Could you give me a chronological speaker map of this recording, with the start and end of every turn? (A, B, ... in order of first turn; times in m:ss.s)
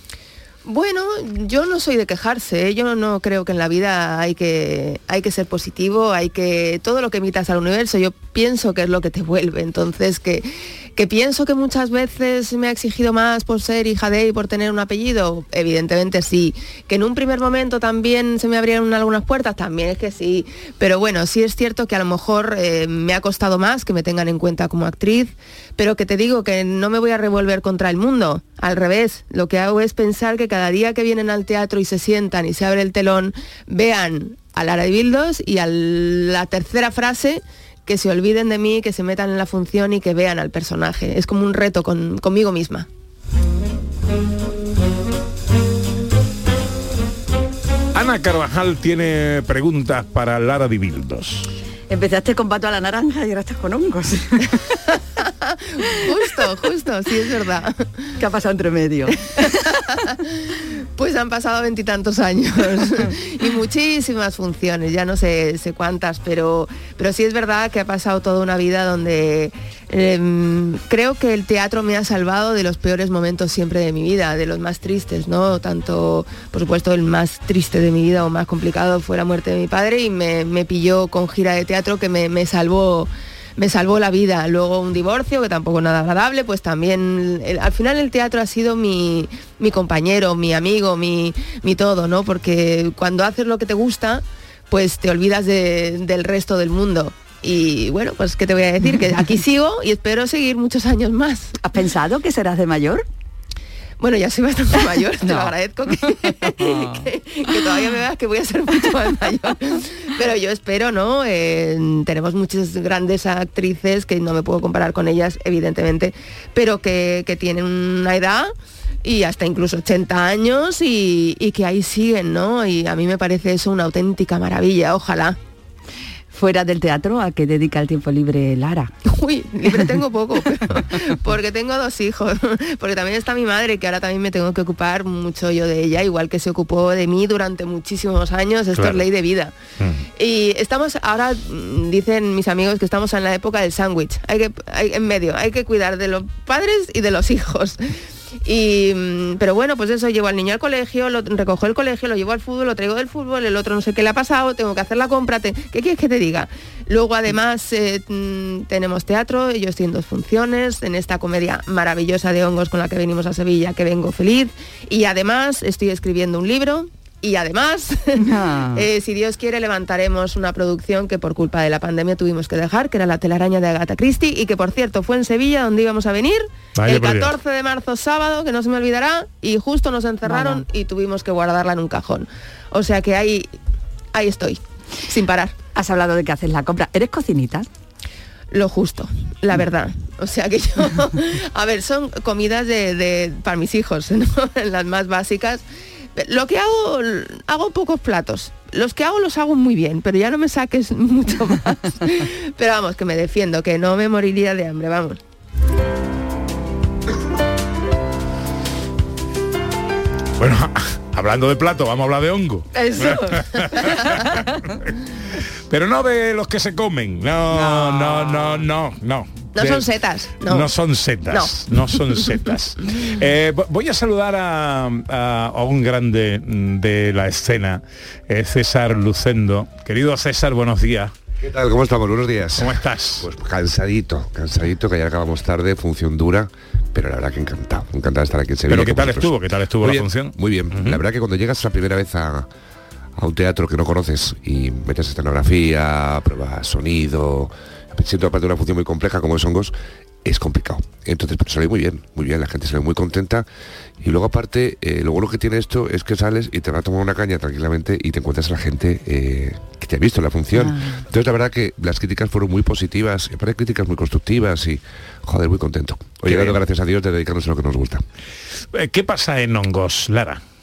0:00.6-0:42.9 A
0:47.9-0:51.5 B
0:51.9-0:54.8 C
0:55.8-0:57.8 A
0:58.2-0:59.9 C
1:01.0-1:41.5 A
1:41.6-1:43.0 C
1:44.0-1:58.5 A
1:45.2-1:45.5 C
1:46.4-1:47.1 C
1:59.0-2:05.4 A
2:06.3-2:08.9 C
2:09.0-2:19.5 A
2:18.8-2:19.0 B
2:19.8-2:20.0 B
2:20.2-3:03.5 A
2:48.2-2:48.9 C
2:56.8-2:57.3 B
3:00.2-3:00.6 C
3:04.1-3:05.5 A
3:05.7-3:07.7 C
3:08.5-3:15.6 A
3:16.2-3:25.2 A
3:30.4-3:34.5 B
3:32.7-3:34.5 C
3:35.7-3:39.8 B
3:37.5-3:38.6 C
3:39.5-3:40.7 A
3:40.4-3:51.1 B
3:41.3-3:42.4 A
3:51.4-4:02.5 D
3:52.6-3:53.3 B
3:58.7-4:01.0 B
4:03.2-4:09.7 D
4:10.2-4:13.4 D
4:14.0-4:28.0 D
4:20.5-4:21.0 C
4:26.2-4:26.6 B
4:28.7-4:30.4 B